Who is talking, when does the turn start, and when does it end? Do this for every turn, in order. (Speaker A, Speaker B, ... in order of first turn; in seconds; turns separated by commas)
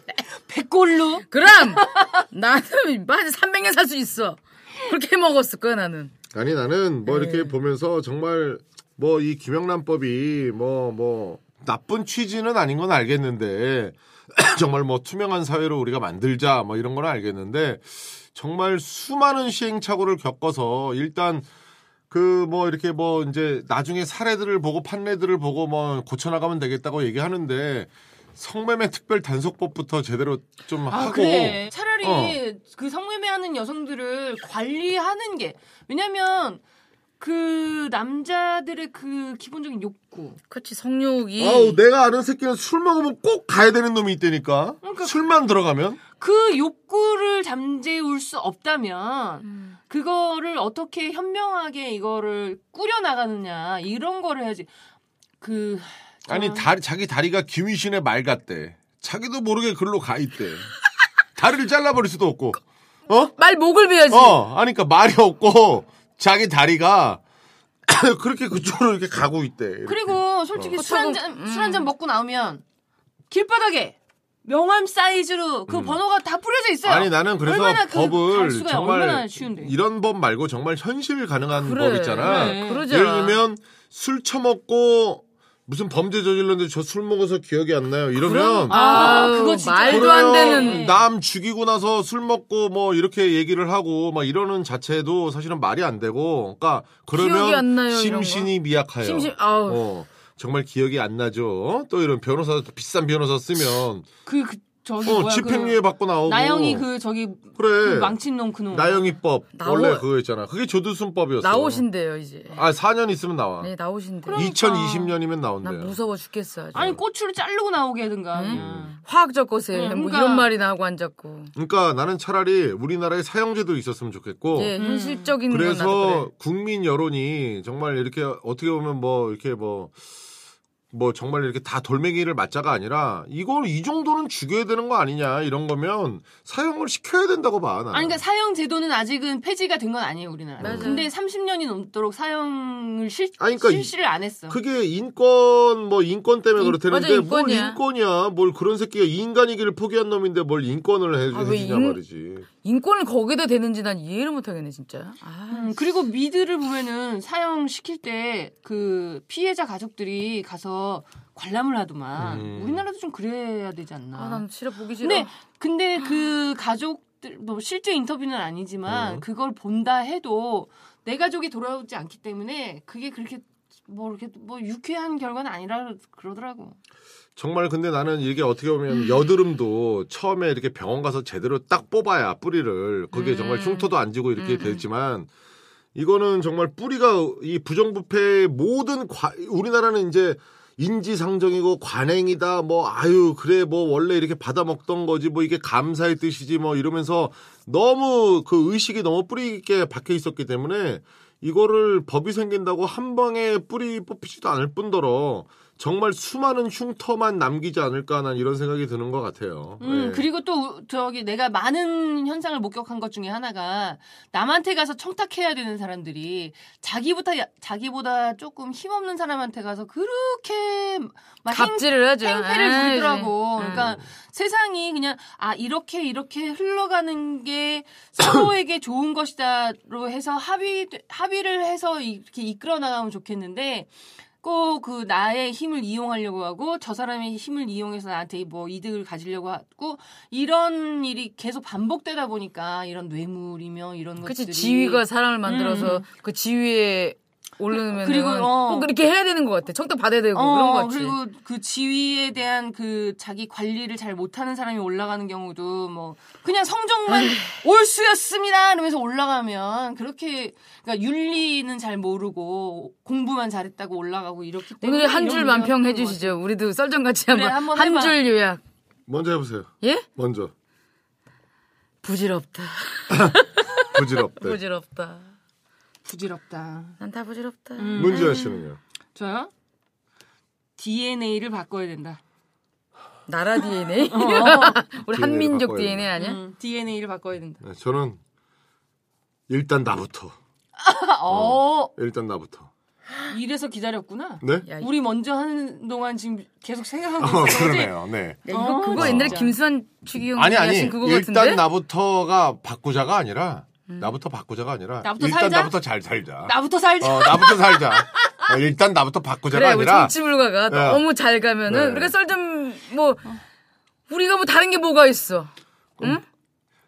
Speaker A: 0.5-2.1, Speaker B: 1.3-6.1, Speaker C: 6.3-21.5, Speaker B: 7.1-7.5, Speaker C: 22.1-32.4, Speaker A: 30.9-36.6, Speaker A: 37.2-40.4, Speaker B: 40.5-41.8, Speaker C: 41.4-46.0, Speaker A: 44.8-45.2, Speaker A: 46.2-54.7, Speaker B: 49.5-49.8, Speaker A: 55.4-56.7, Speaker C: 56.3-60.7, Speaker C: 61.4-63.3, Speaker B: 63.4-64.4, Speaker C: 64.1-67.2, Speaker C: 67.9-70.8, Speaker A: 69.9-72.6, Speaker B: 70.8-71.9, Speaker A: 73.3-79.7, Speaker C: 75.7-76.0, Speaker C: 76.8-104.1, Speaker B: 81.6-83.4, Speaker A: 82.2-82.8, Speaker B: 88.2-90.8, Speaker A: 88.7-91.0, Speaker B: 97.1-99.8, Speaker A: 104.3-109.1, Speaker C: 105.0-106.8, Speaker C: 107.6-111.8, Speaker B: 109.6-110.0, Speaker B: 111.4-112.6, Speaker C: 112.5-113.7, Speaker B: 113.6-115.0, Speaker A: 114.3-115.1, Speaker C: 114.3-116.0, Speaker B: 115.6-117.0, Speaker A: 116.7-119.0, Speaker B: 118.3-121.5, Speaker C: 118.5-118.9, Speaker A: 119.7-120.5, Speaker C: 121.5-124.8, Speaker B: 124.5-126.3, Speaker A: 124.8-125.3, Speaker C: 125.5-130.0, Speaker C: 130.9-138.2, Speaker A: 137.9-144.6, Speaker C: 140.6-140.9, Speaker B: 140.6-141.1, Speaker C: 143.4-143.9, Speaker C: 144.5-152.5, Speaker B: 146.6-147.8, Speaker B: 151.3-152.0, Speaker B: 152.5-155.8, Speaker A: 155.5-164.4, Speaker C: 162.2-162.8, Speaker B: 164.2-165.3, Speaker A: 165.0-176.8, Speaker C: 168.9-169.2, Speaker C: 177.4-185.3, Speaker B: 183.1-184.8, Speaker C: 185.9-210.3, Speaker A: 209.8-233.9, Speaker B: 221.5-223.9, Speaker C: 223.7-224.0, Speaker A: 234.4-246.1, Speaker B: 244.2-251.2, Speaker A: 247.7-248.9, Speaker A: 250.3-266.4, Speaker B: 257.1-257.6, Speaker B: 264.8-268.6, Speaker A: 267.3-268.2, Speaker C: 269.1-270.5, Speaker B: 272.0-275.3, Speaker C: 273.1-274.6, Speaker A: 276.1-277.0, Speaker B: 277.0-278.4, Speaker A: 277.8-278.6, Speaker C: 277.9-278.8, Speaker A: 279.1-279.5, Speaker A: 280.8-282.2, Speaker B: 283.3-286.4, Speaker A: 284.1-284.8, Speaker C: 285.1-286.1, Speaker A: 286.2-287.6, Speaker C: 287.6-288.2, Speaker C: 289.5-290.4, Speaker A: 290.8-291.9, Speaker C: 291.3-292.7, Speaker A: 293.3-299.6, Speaker C: 294.4-294.7, Speaker C: 297.2-298.4, Speaker B: 298.5-301.6, Speaker C: 298.9-299.4, Speaker C: 300.3-310.2, Speaker A: 305.0-305.7, Speaker A: 306.4-308.5, Speaker B: 309.5-313.4, Speaker C: 310.7-311.0, Speaker C: 311.7-312.1, Speaker B: 314.1-316.2